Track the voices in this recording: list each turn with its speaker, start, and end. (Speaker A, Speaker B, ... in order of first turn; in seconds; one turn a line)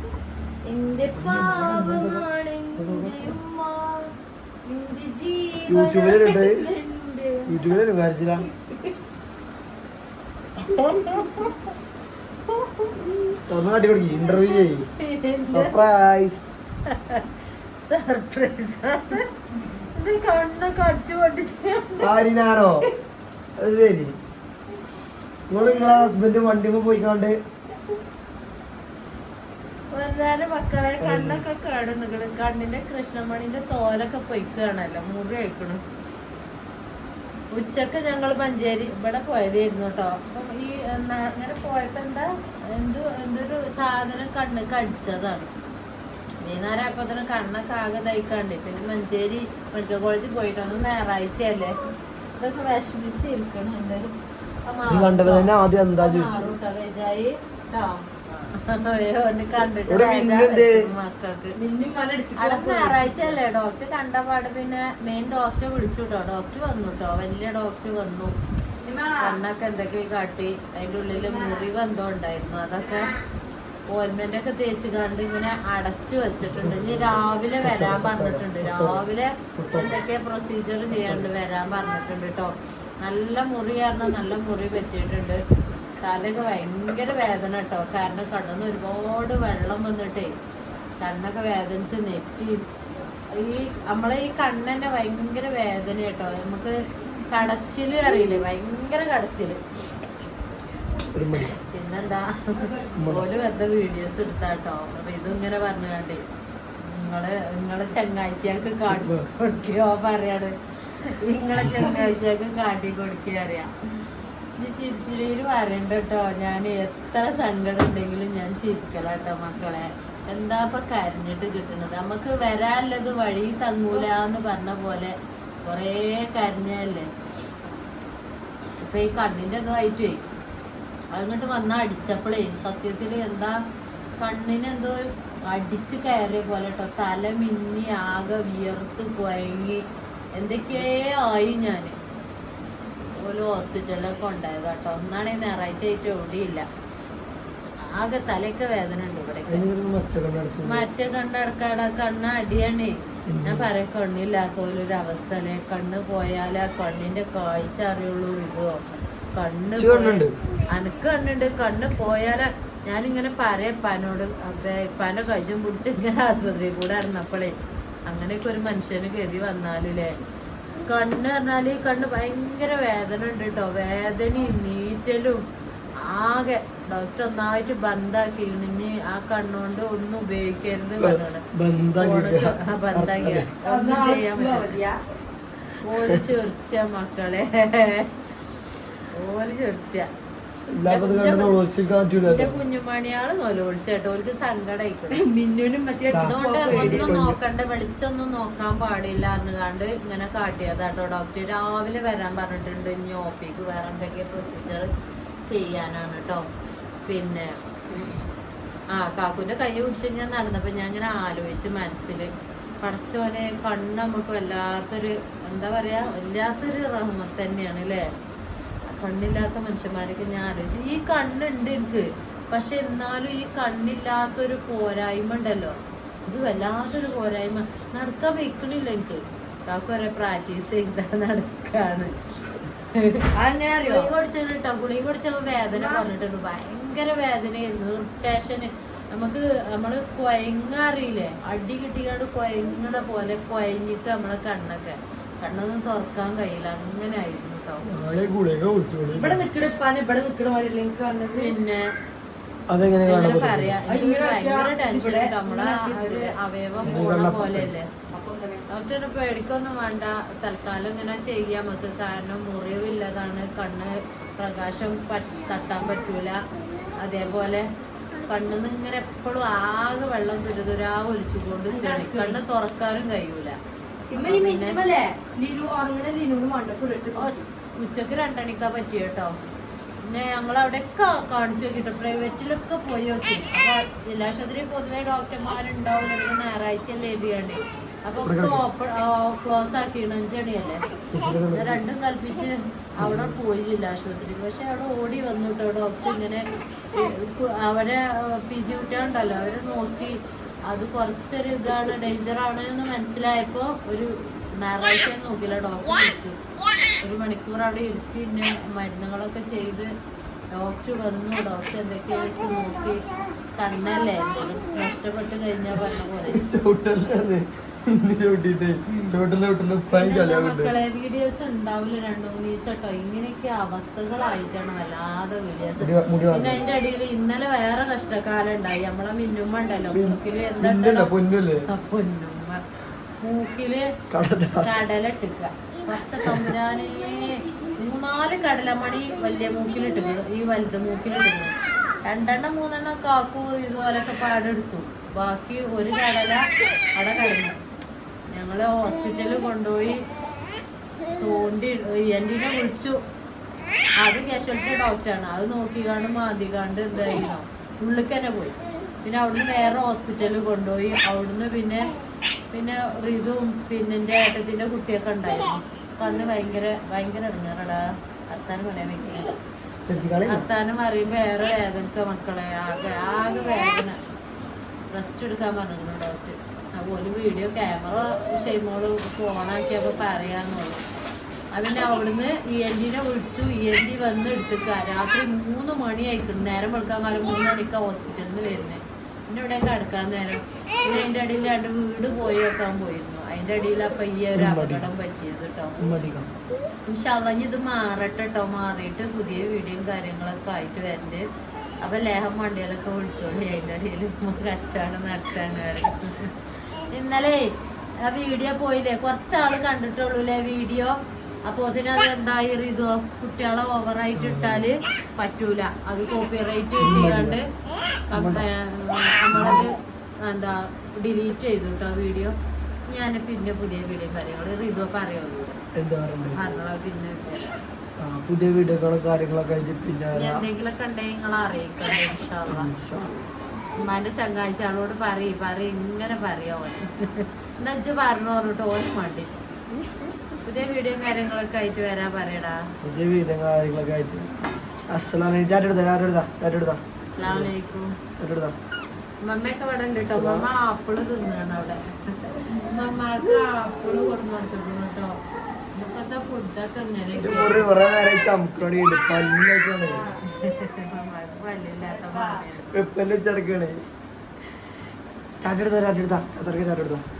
Speaker A: 0.6-4.1
Speaker B: 1.1-2.2
Speaker B: 2.8-3.3
Speaker A: 4.6-7.7
Speaker B: 5.7-6.7
Speaker B: 7.5-8.5
Speaker A: 8.4-8.9
Speaker C: 10.6-11.6
Speaker C: 12.5-13.3
Speaker B: 13.5-14.9
Speaker C: 14.5-15.8
Speaker B: 15.5-16.5
Speaker C: 16.9-17.2
Speaker C: 17.8-19.3
Speaker C: 19.9-22.2
Speaker B: 22.0-22.9
Speaker B: 23.6-24.1
Speaker B: 25.5-27.4
Speaker C: 29.9-35.8
Speaker B: 31.0-31.4
Speaker C: 37.5-45.5
Speaker C: 46.4-51.8
Speaker C: 52.3-54.1
Speaker C: 54.6-61.5
Speaker B: 54.9-56.5
Speaker B: 59.8-60.9
Speaker A: 61.5-63.4
Speaker C: 62.4-68.3
Speaker A: 68.8-69.4
Speaker C: 69.2-73.1
Speaker A: 71.1-71.7
Speaker C: 73.9-85.4
Speaker B: 76.4-79.0
Speaker B: 79.5-80.0
Speaker B: 80.9-81.3
Speaker C: 86.0-90.3
Speaker C: 91.0-92.7
Speaker C: 93.3-96.8
Speaker C: 97.3-99.6
Speaker B: 101.1-101.6
Speaker C: 101.6-106.2
Speaker A: 102.6-102.9
Speaker B: 103.0-103.3
Speaker C: 106.8-113.7
Speaker B: 108.9-109.3
Speaker C: 114.6-127.1
Speaker C: 128.8-130.2
Speaker C: 131.1-133.6
Speaker C: 134.2-139.8
Speaker C: 140.3-141.9
Speaker C: 143.2-146.7
Speaker C: 147.8-149.7
Speaker B: 149.5-150.9
Speaker C: 150.6-158.8
Speaker B: 153.3-153.7
Speaker C: 159.3-167.5
Speaker B: 159.8-160.3
Speaker C: 168.1-170.1
Speaker C: 170.8-175.4
Speaker C: 176.0-184.7
Speaker B: 181.0-183.5
Speaker A: 183.6-185.0
Speaker C: 185.8-188.1
Speaker C: 189.1-190.1
Speaker B: 190.7-192.6
Speaker C: 190.8-191.6
Speaker C: 192.2-195.2
Speaker A: 195.1-197.2
Speaker B: 196.1-197.4
Speaker C: 196.2-204.9
Speaker C: 205.5-206.4
Speaker C: 207.1-208.2
Speaker C: 208.9-212.3
Speaker C: 212.8-218.1
Speaker C: 218.9-225.8
Speaker C: 226.3-232.1
Speaker C: 232.9-233.3
Speaker A: 233.3-234.1
Speaker C: 233.8-247.8
Speaker A: 235.7-236.0
Speaker B: 247.9-249.5
Speaker A: 249.1-251.5
Speaker C: 251.3-251.9
Speaker B: 252.7-253.8
Speaker C: 253.0-257.9
Speaker A: 253.1-257.0
Speaker B: 256.8-257.7
Speaker A: 258.1-258.7
Speaker C: 258.7-266.4
Speaker C: 267.0-267.6
Speaker C: 268.2-273.6
Speaker A: 271.7-272.4
Speaker A: 274.1-277.4
Speaker C: 274.2-274.8
Speaker C: 277.2-279.3
Speaker C: 280.0-290.8
Speaker B: 288.2-288.6
Speaker B: 291.1-291.8
Speaker C: 291.5-306.4
Speaker B: 293.0-293.4
Speaker C: 307.0-309.9
Speaker C: 310.5-316.4
Speaker B: 316.3-320.7
Speaker C: 318.9-319.1
Speaker C: 319.9-331.1
Speaker B: 325.8-326.6
Speaker B: 329.9-331.7
Speaker C: 331.6-332.6
Speaker C: 333.2-333.9
Speaker B: 334.1-334.8
Speaker C: 334.6-346.4
Speaker B: 336.2-336.5
Speaker C: 346.9-347.6
Speaker C: 348.3-350.0
Speaker C: 351.1-353.0
Speaker C: 354.0-361.9
Speaker C: 362.5-369.4
Speaker B: 369.9-370.5
Speaker C: 370.0-374.0
Speaker C: 374.9-380.8
Speaker C: 381.5-395.8
Speaker B: 394.3-394.9
Speaker B: 395.8-396.3
Speaker C: 396.9-401.2
Speaker C: 401.8-407.5
Speaker C: 408.0-417.4
Speaker B: 414.1-414.7
Speaker B: 416.8-417.4
Speaker C: 418.1-422.3
Speaker B: 418.1-418.4
Speaker B: 419.3-419.7
Speaker C: 422.9-425.6
Speaker B: 425.7-426.4
Speaker C: 426.2-427.6
Speaker B: 428.0-430.5
Speaker C: 430.1-432.7
Speaker B: 432.5-433.3
Speaker C: 433.8-439.3
Speaker C: 440.4-442.6
Speaker B: 442.8-447.5
Speaker C: 447.1-447.9
Speaker B: 448.2-448.6
Speaker C: 449.2-455.2
Speaker B: 450.0-450.5
Speaker C: 455.7-457.7
Speaker B: 457.1-460.1
Speaker A: 459.8-460.2
Speaker C: 460.2-462.9
Speaker A: 461.8-462.4
Speaker B: 462.7-463.8
Speaker B: 465.4-467.0